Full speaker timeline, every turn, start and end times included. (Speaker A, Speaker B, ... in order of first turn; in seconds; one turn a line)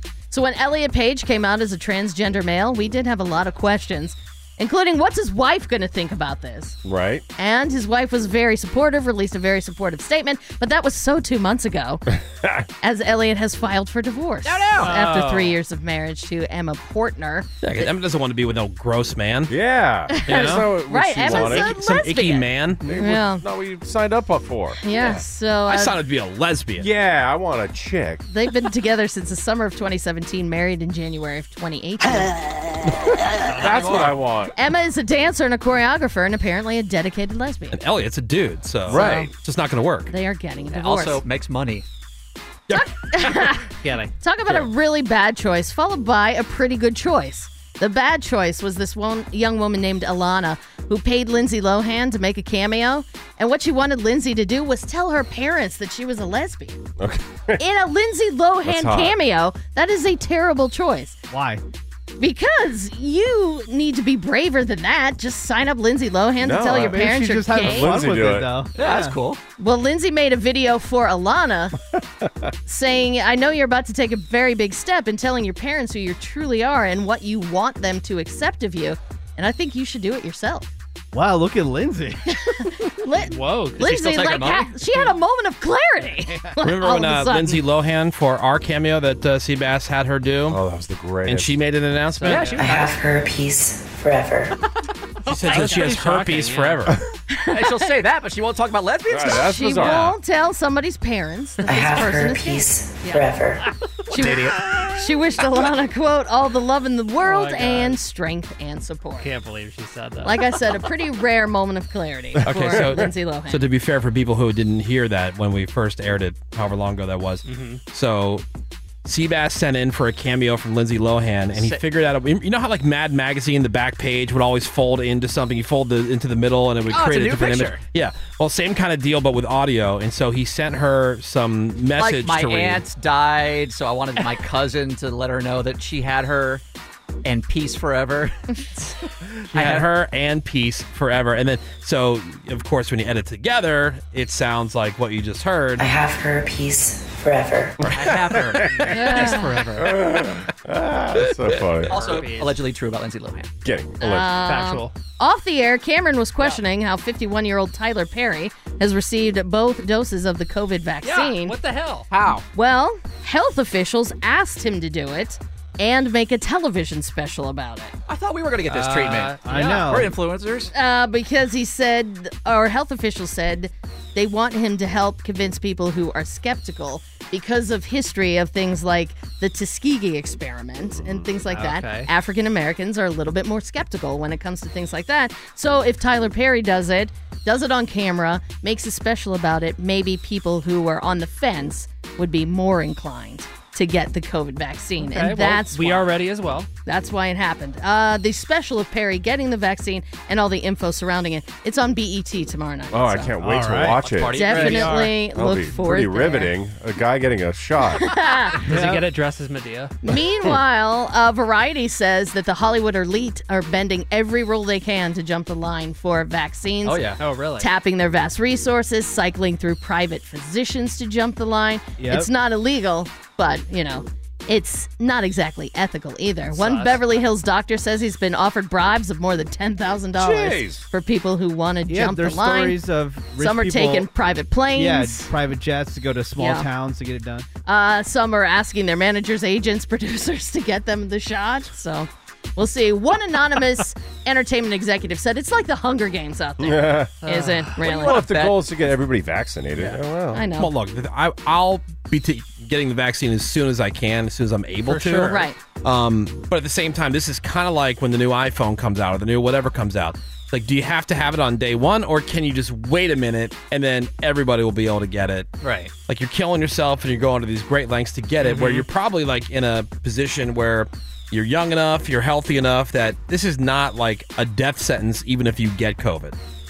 Speaker A: 0.3-6.8
Speaker B: 6.8-7.2
Speaker A: 7.4-12.0
Speaker B: 12.3-12.7
Speaker A: 12.8-17.9
Speaker C: 14.4-15.0
Speaker D: 14.8-15.6
Speaker E: 17.6-19.6
Speaker B: 19.5-21.8
Speaker A: 20.1-23.4
Speaker E: 20.3-20.7
Speaker E: 21.2-22.8
Speaker B: 22.8-24.8
Speaker A: 24.8-26.0
Speaker E: 25.7-26.9
Speaker B: 26.8-28.2
Speaker A: 28.3-32.5
Speaker D: 33.4-34.2
Speaker B: 33.5-34.5
Speaker A: 34.5-37.8
Speaker E: 37.7-40.1
Speaker B: 38.9-39.3
Speaker C: 38.9-39.2
Speaker A: 38.9-39.3
Speaker A: 40.1-41.2
Speaker C: 40.7-41.9
Speaker A: 42.7-56.8
Speaker D: 43.8-44.7
Speaker B: 57.0-57.6
Speaker A: 57.6-61.2
Speaker B: 58.6-59.2
Speaker F: 61.3-61.6
Speaker A: 62.2-68.1
Speaker B: 66.4-68.5
Speaker F: 66.7-69.2
Speaker C: 68.8-69.4
Speaker A: 69.6-71.8
Speaker B: 72.2-72.5
Speaker A: 72.7-80.7
Speaker F: 81.1-82.6
Speaker A: 82.5-87.6
Speaker D: 83.2-84.1
Speaker C: 83.8-84.8
Speaker E: 86.6-90.6
Speaker B: 90.5-91.5
Speaker E: 91.2-92.6
Speaker D: 92.2-92.8
Speaker C: 92.3-92.9
Speaker G: 92.6-94.5
Speaker E: 95.3-97.0
Speaker D: 95.3-96.9
Speaker A: 97.3-97.9
Speaker C: 97.5-99.6
Speaker B: 99.1-100.1
Speaker A: 99.3-103.2
Speaker E: 99.8-100.1
Speaker G: 101.7-103.7
Speaker D: 101.7-102.1
Speaker A: 104.1-109.3
Speaker D: 104.2-104.9
Speaker D: 107.2-108.0
Speaker D: 109.2-110.8
Speaker A: 110.2-113.7
Speaker B: 112.4-113.1
Speaker E: 112.5-118.4
Speaker D: 117.5-117.8
Speaker E: 119.0-132.8
Speaker C: 121.5-121.8
Speaker C: 126.9-127.8
Speaker C: 132.0-136.6
Speaker C: 137.2-138.4
Speaker C: 139.5-139.9
Speaker E: 139.5-145.9
Speaker G: 145.8-147.8
Speaker B: 147.8-148.8
Speaker C: 147.9-149.8
Speaker D: 148.6-150.0
Speaker A: 148.9-149.7
Speaker B: 149.8-151.9
Speaker C: 151.9-153.5
Speaker D: 151.9-152.6
Speaker B: 153.6-154.3
Speaker A: 154.0-161.6
Speaker D: 154.4-155.0
Speaker D: 161.0-162.1
Speaker C: 162.1-162.4
Speaker A: 162.5-167.9
Speaker C: 168.1-170.7
Speaker D: 168.7-170.0
Speaker F: 169.4-170.1
Speaker A: 170.7-196.1
Speaker B: 180.9-181.3
Speaker D: 181.5-182.1
Speaker D: 195.0-196.7
Speaker A: 196.9-203.3
Speaker B: 202.9-204.4
Speaker F: 203.4-204.1
Speaker C: 204.0-205.1
Speaker A: 204.3-206.5
Speaker D: 204.4-205.2
Speaker B: 205.3-208.1
Speaker A: 207.9-208.7
Speaker D: 208.6-210.0
Speaker F: 208.7-209.0
Speaker A: 210.0-232.8
Speaker C: 216.8-217.2
Speaker D: 217.2-217.7
Speaker F: 222.0-222.3
Speaker D: 226.5-227.2
Speaker B: 230.2-230.8
Speaker F: 231.9-234.1
Speaker A: 233.4-235.3
Speaker F: 234.7-237.5
Speaker A: 236.4-236.7
Speaker A: 237.7-248.2
Speaker B: 246.6-247.1
Speaker D: 247.2-247.8
Speaker C: 247.8-248.7
Speaker B: 247.9-250.4
Speaker A: 250.3-250.7
Speaker E: 250.5-265.5
Speaker D: 254.9-255.5
Speaker A: 255.3-255.6
Speaker C: 265.6-265.9
Speaker E: 266.1-276.4
Speaker D: 268.4-268.9